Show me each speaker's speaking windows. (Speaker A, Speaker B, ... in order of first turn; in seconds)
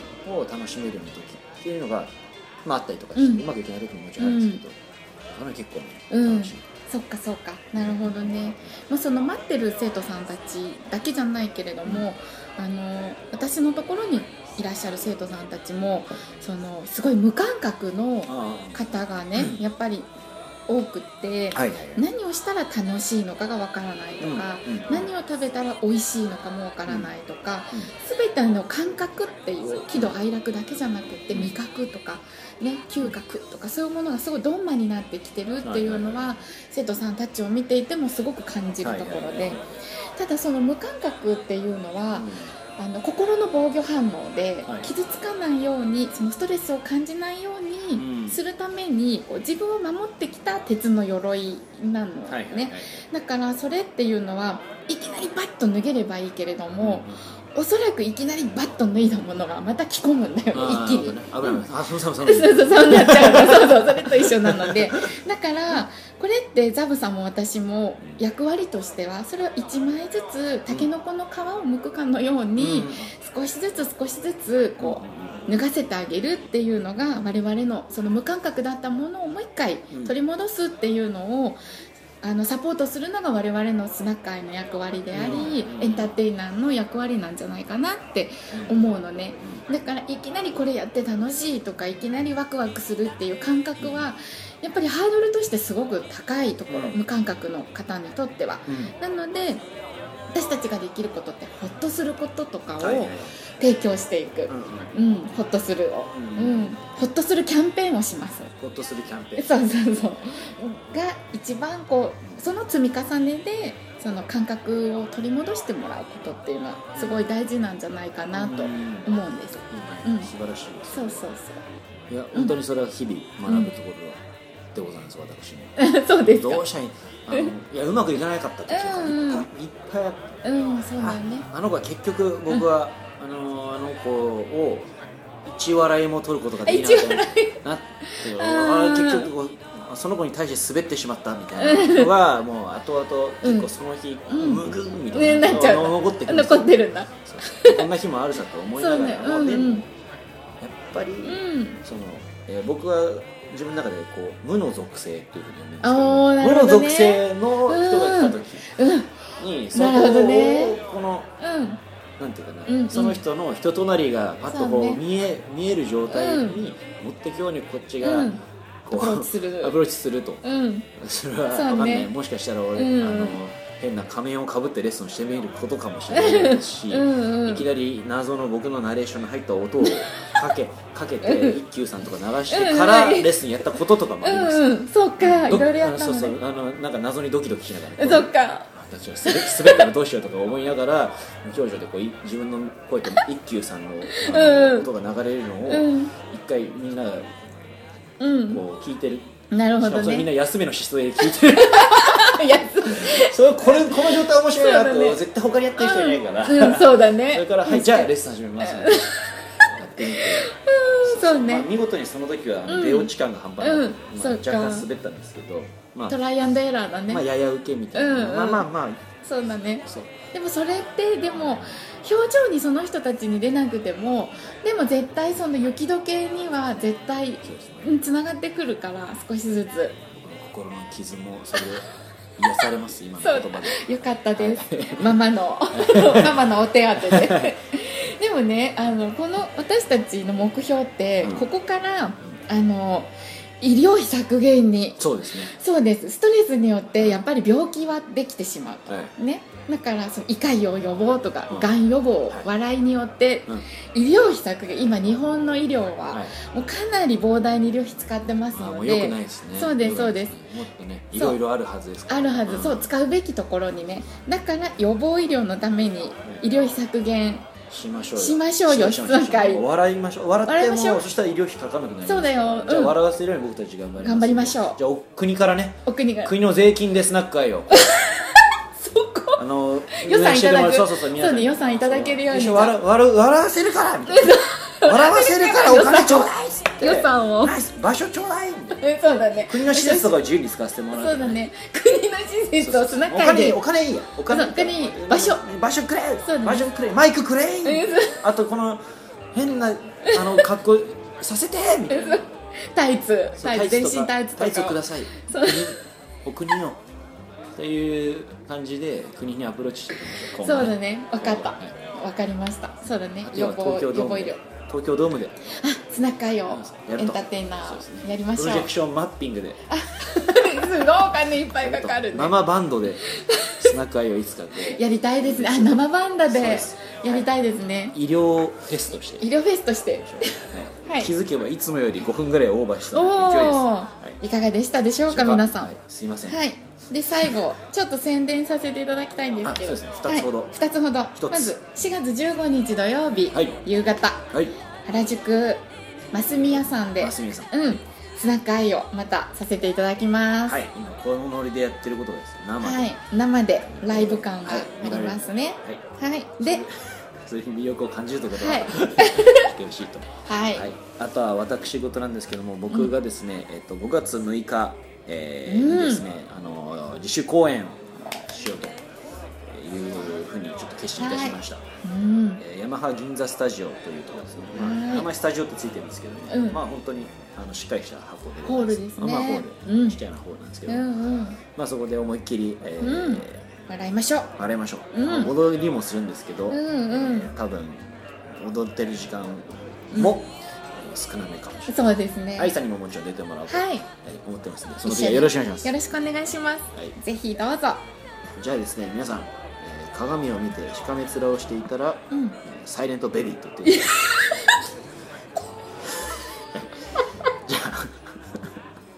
Speaker A: 0.2-6.6, 7.8-8.7, 18.2-18.8, 21.5-22.0, 24.2-25.1, 26.9-27.1, 31.3-31.6, 35.6-36.3, 38.8-39.7, 42.1-42.5, 44.6-44.9, 47.9-48.4, 52.3-53.0, 56.8-57.2, 60.5-65.1, 72.5-73.1, 74.8-75.5, 85.1-86.1, 88.5-88.8, 93.8-94.1, 96.7-97.0, 98.7-98.9, 102.8-103.3, 104.5-105.0, 106.1-107.0, 108.6-109.5, 116.9-117.3, 118.3-121.3, 122.1-130.3, 131.0-134.9, 135.4-149.8, 150.6-158.6, 159.4-161.3, 162.2-170.4, 170.9-197.3, 198.5-216.2, 217.1-219.0, 219.8-220.1, 221.3-221.8, 227.4-228.0, 230.1-233.8, 234.4-235.2, 235.7-236.4, 237.0-237.5, 245.0-245.5, 258.5-262.9, 267.7-277.7, 279.4-288.8, 289.5-291.4, 292.6-302.4, 303.3-306.8, 307.5-311.8, 313.2-315.4, 316.5-319.6, 320.2-320.7, 321.5-323.1, 323.6-327.3, 327.9-329.3, 330.0-334.2, 335.1-336.4, 339.4-340.6, 341.1-341.5, 343.3-343.6, 344.3-344.5, 346.5-347.5, 350.4-352.9, 353.7-355.8, 356.4-368.9, 369.4-371.6, 372.4-380.9, 381.5-383.5, 384.4-391.8, 392.4-395.7, 398.4-404.3, 406.0-408.5
Speaker B: 3.1-3.4, 4.2-4.6, 6.1-20.1, 20.7-39.6, 40.1-61.6, 62.2-81.6, 82.2-99.6, 100.3-108.5, 109.3-120.3, 120.9-121.6, 125.8-126.6, 128.7-129.5, 130.4-131.5, 136.6-139.3, 141.6-142.1, 143.4-143.7, 144.3-147.8, 148.8-149.8, 151.2-151.8, 155.8-159.2, 159.7-160.8, 161.4-161.8, 162.7-163.2, 164.5-165.0, 166.1-166.6, 168.0-169.8, 170.4-170.9, 171.5-172.1, 172.7-173.4, 176.1-177.7, 179.8-180.4, 181.2-181.6, 182.5-183.3, 184.2-186.3, 188.0-188.7, 189.2-189.9, 194.1-194.9, 195.7-196.1, 198.2-198.6, 199.5-200.3, 201.2-205.2, 205.8-211.7, 212.7-214.9, 216.1-217.2, 217.9-218.7, 219.2-230.0, 233.2-260.4, 261.1-261.4, 262.1-267.5, 268.2-269.6, 270.4-271.0, 272.0-273.0, 274.0-274.8, 275.9-276.3, 277.7-282.8, 284.1-287.6, 288.8-290.2, 290.9-293.6, 294.3-295.4, 296.2-296.7, 297.6-298.2, 300.0-300.4, 301.9-305.8, 310.3-314.4, 315.4-318.7, 319.7-322.4, 323.1-323.7, 324.6-328.0, 329.2-331.1, 332.9-344.3, 344.8-350.6, 352.6-356.6, 358.4-359.5, 360.2-360.7, 365.4-366.0, 371.0-372.4, 374.5-375.1, 376.3-376.6, 378.4-380.0, 380.7-381.4, 382.8-384.3, 384.9-385.3, 386.5-387.3, 391.7-392.5, 393.5-393.9, 394.8-397.8, 402.1-402.4, 403.7-404.6